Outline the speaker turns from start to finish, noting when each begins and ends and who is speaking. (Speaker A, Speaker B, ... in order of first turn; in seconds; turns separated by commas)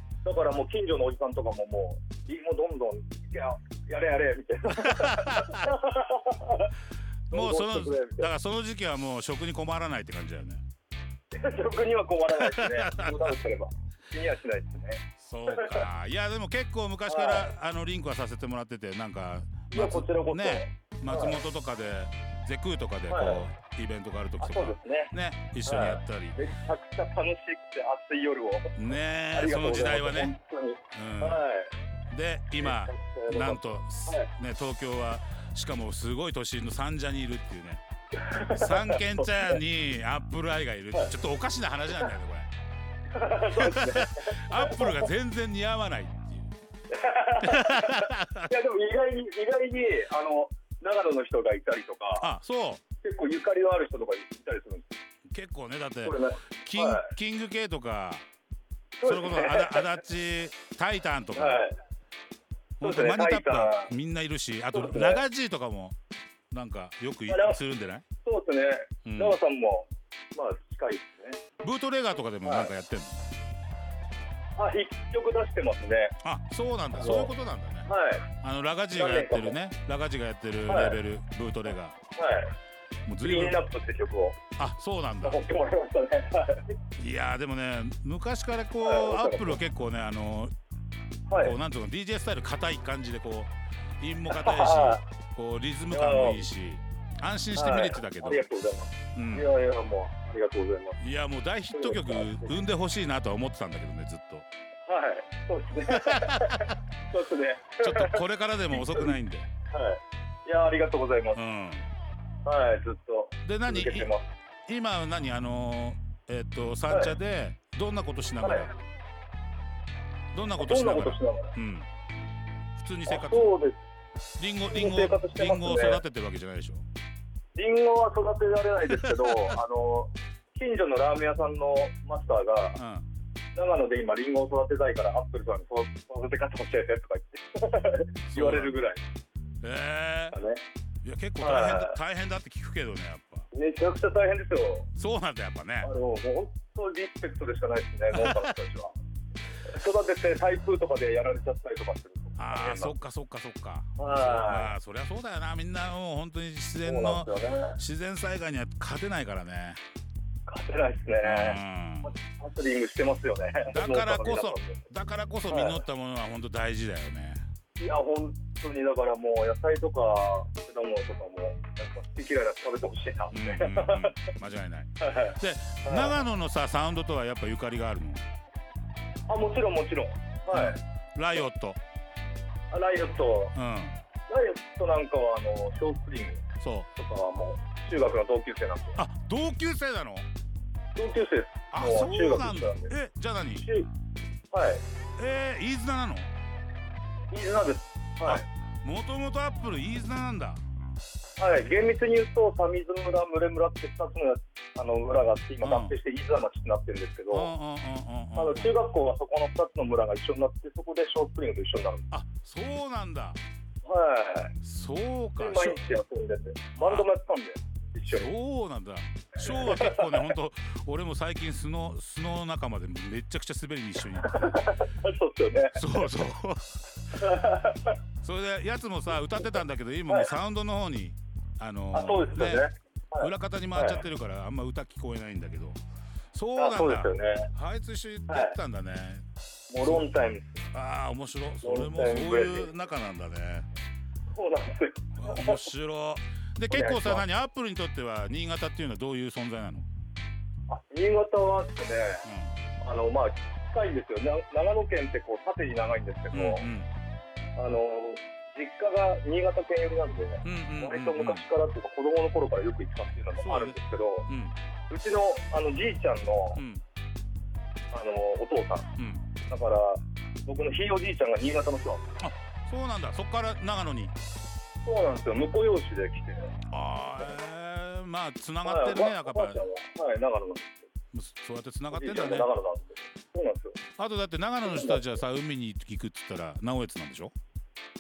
Speaker A: 0.2-6.7, Speaker B: 4.8-5.7, Speaker A: 7.3-8.3, Speaker B: 7.3-10.6, Speaker A: 11.3-15.9, Speaker B: 12.3-13.4, Speaker B: 15.2-26.4, Speaker A: 17.1-17.5, Speaker A: 19.7-21.4, Speaker A: 23.1-23.4, Speaker A: 24.4-25.1, Speaker A: 25.7-28.7, Speaker B: 28.8-30.3, Speaker A: 29.3-31.7, Speaker B: 30.9-31.4, Speaker B: 32.1-37.8, Speaker A: 32.6-34.3, Speaker A: 38.1-39.6, Speaker B: 38.5-42.5, Speaker A: 43.1-45.1, Speaker B: 43.5-46.5, Speaker A: 46.9-52.3, Speaker B: 47.4-48.5, Speaker B: 52.2-52.8, Speaker A: 53.0-54.9, Speaker B: 55.3-58.2, Speaker A: 56.0-57.1, Speaker A: 59.0-59.9, Speaker B: 59.0-61.6, Speaker A: 61.3-61.8, Speaker B: 62.8-66.0, Speaker A: 62.8-63.9, Speaker A: 64.7-65.2, Speaker B: 66.5-68.0, Speaker A: 67.3-67.6, Speaker A: 68.2-71.4, Speaker B: 69.0-69.4, Speaker B: 71.6-73.2, Speaker A: 72.4-72.7, Speaker A: 74.6-76.1, Speaker B: 76.2-77.9, Speaker A: 76.9-77.3, Speaker A: 77.8-78.3, Speaker B: 78.4-82.0, Speaker A: 78.9-79.6, Speaker A: 80.7-81.0, Speaker A: 82.2-82.5, Speaker B: 83.1-83.6, Speaker A: 83.2-84.4, Speaker B: 84.6-85.4, Speaker A: 85.2-86.8, Speaker B: 87.0-90.5, Speaker A: 88.8-89.6, Speaker A: 91.3-91.6, Speaker B: 91.4-98.5, Speaker A: 94.3-95.0, Speaker A: 95.9-96.5, Speaker A: 97.6-101.0, Speaker B: 99.2-99.5, Speaker B: 101.0-104.5, Speaker A: 101.7-102.6, Speaker A: 104.9-108.2, Speaker B: 105.9-106.7, Speaker B: 107.8-109.5, Speaker A: 108.7-109.2, Speaker A: 109.7-111.4, Speaker B: 111.3-111.9, Speaker A: 112.5-114.2, Speaker B: 113.4-114.1, Speaker B: 114.7-118.7, Speaker A: 116.9-117.2, Speaker A: 118.4-118.7, Speaker B: 120.3-121.9, Speaker A: 120.6-121.5, Speaker B: 122.8-123.5, Speaker A: 123.1-123.8, Speaker B: 124.4-126.8, Speaker A: 124.7-126.0, Speaker A: 127.5-132.8, Speaker B: 132.8-133.1, Speaker A: 133.5-139.0, Speaker B: 138.3-138.7, Speaker B: 139.6-140.4, Speaker A: 140.3-140.6, Speaker B: 141.0-143.5, Speaker A: 141.4-142.0, Speaker A: 143.5-144.9, Speaker B: 145.0-145.9, Speaker A: 145.8-148.9, Speaker B: 148.1-148.5, Speaker A: 149.7-153.0, Speaker B: 152.4-159.8, Speaker A: 154.0-154.7, Speaker A: 156.8-157.8, Speaker A: 160.5-164.8, Speaker B: 161.2-162.1, Speaker B: 163.7-167.4, Speaker A: 165.5-165.8, Speaker A: 167.8-174.2, Speaker B: 173.3-178.2, Speaker A: 175.0-176.2, Speaker A: 179.3-180.8, Speaker B: 180.5-181.8, Speaker A: 182.7-183.5, Speaker B: 183.6-184.0, Speaker A: 184.3-186.4, Speaker B: 186.6-186.9, Speaker A: 187.0-189.0, Speaker B: 189.0-190.3, Speaker A: 191.0-192.9, Speaker B: 191.7-193.7, Speaker A: 193.6-193.9, Speaker A: 194.5-194.8, Speaker B: 195.2-196.3, Speaker A: 197.3-198.4, Speaker B: 198.2-200.6, Speaker A: 201.4-207.5, Speaker B: 205.6-205.9, Speaker B: 207.3-208.8, Speaker A: 208.3-212.1, Speaker B: 212.1-213.4, Speaker A: 213.8-214.5, Speaker B: 214.6-215.8, Speaker A: 215.4-218.3, Speaker B: 216.8-217.1, Speaker B: 218.1-224.5, Speaker A: 219.4-220.3, Speaker A: 224.2-226.1, Speaker B: 225.8-226.8, Speaker A: 227.2-228.0, Speaker B: 228.2-232.7, Speaker A: 230.1-230.3, Speaker A: 231.9-234.0, Speaker B: 233.2-235.8, Speaker B: 236.3-239.2, Speaker A: 236.6-237.5, Speaker A: 238.3-238.6, Speaker A: 239.7-240.7, Speaker B: 240.7-243.7, Speaker A: 241.6-242.8, Speaker A: 244.3-245.6, Speaker B: 245.2-249.9, Speaker A: 246.7-247.2, Speaker A: 250.7-252.2, Speaker B: 252.2-252.5, Speaker A: 252.8-256.7, Speaker B: 256.3-256.9, Speaker A: 257.6-264.3, Speaker B: 260.4-261.4, Speaker B: 263.4-264.5, Speaker A: 264.9-266.6, Speaker B: 266.6-266.8, Speaker A: 267.9-268.9, Speaker B: 269.0-269.2, Speaker A: 269.5-272.1, Speaker B: 272.2-274.1, Speaker A: 274.8-276.5, Speaker B: 276.7-279.7, Speaker A: 278.6-280.8, Speaker B: 281.1-282.5, Speaker A: 281.9-283.8, Speaker B: 284.0-287.3, Speaker A: 284.6-285.0